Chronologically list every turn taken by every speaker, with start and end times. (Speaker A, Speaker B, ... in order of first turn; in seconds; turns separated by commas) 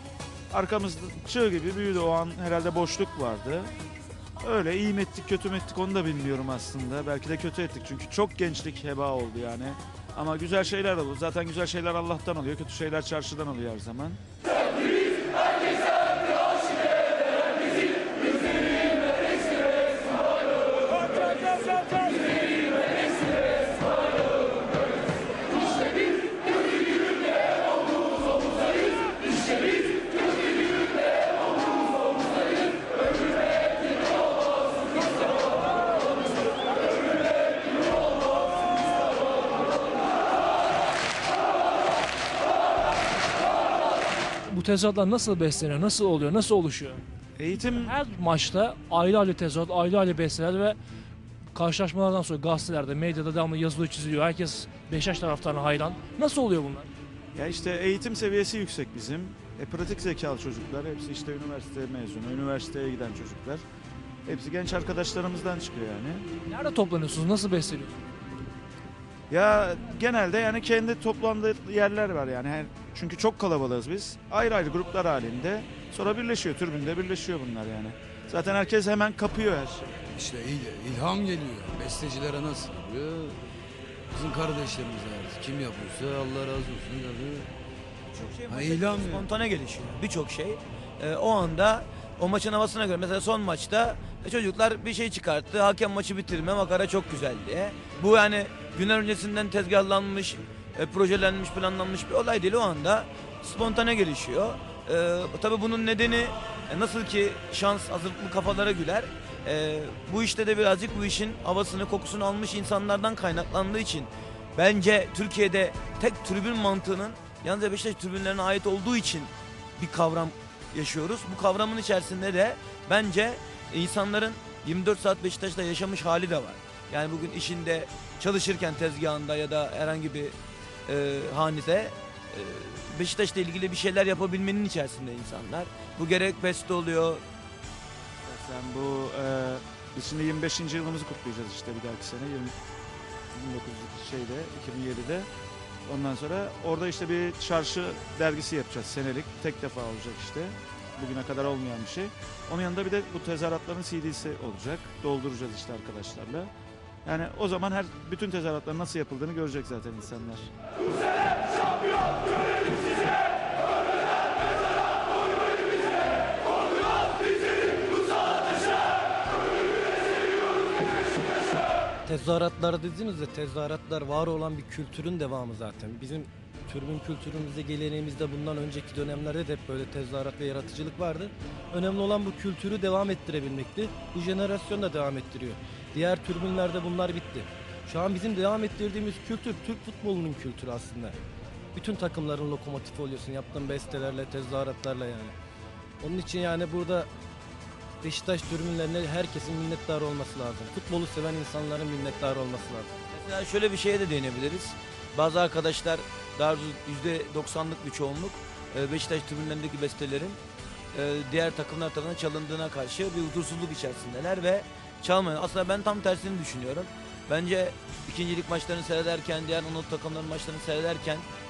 Speaker A: 0.5-3.7, Speaker A: 4.4-14.2, Speaker B: 44.5-47.0, Speaker A: 47.4-48.0, Speaker B: 47.6-50.8, Speaker B: 51.5-56.9, Speaker A: 57.4-63.6, Speaker A: 64.3-66.3, Speaker B: 66.5-68.0, Speaker A: 69.3-79.9, Speaker C: 80.2-83.4, Speaker C: 84.1-87.5, Speaker D: 88.1-130.3, Speaker C: 88.5-89.2, Speaker D: 130.9-137.2, Speaker A: 138.3-142.6, Speaker A: 143.3-145.3, Speaker A: 145.9-156.5, Speaker A: 157.1-160.5, Speaker E: 172.1-191.2, Speaker E: 191.7-195.3, Speaker E: 196.0-197.1, Speaker E: 198.0-202.9, Speaker D: 203.1-210.4, Speaker D: 210.9-221.3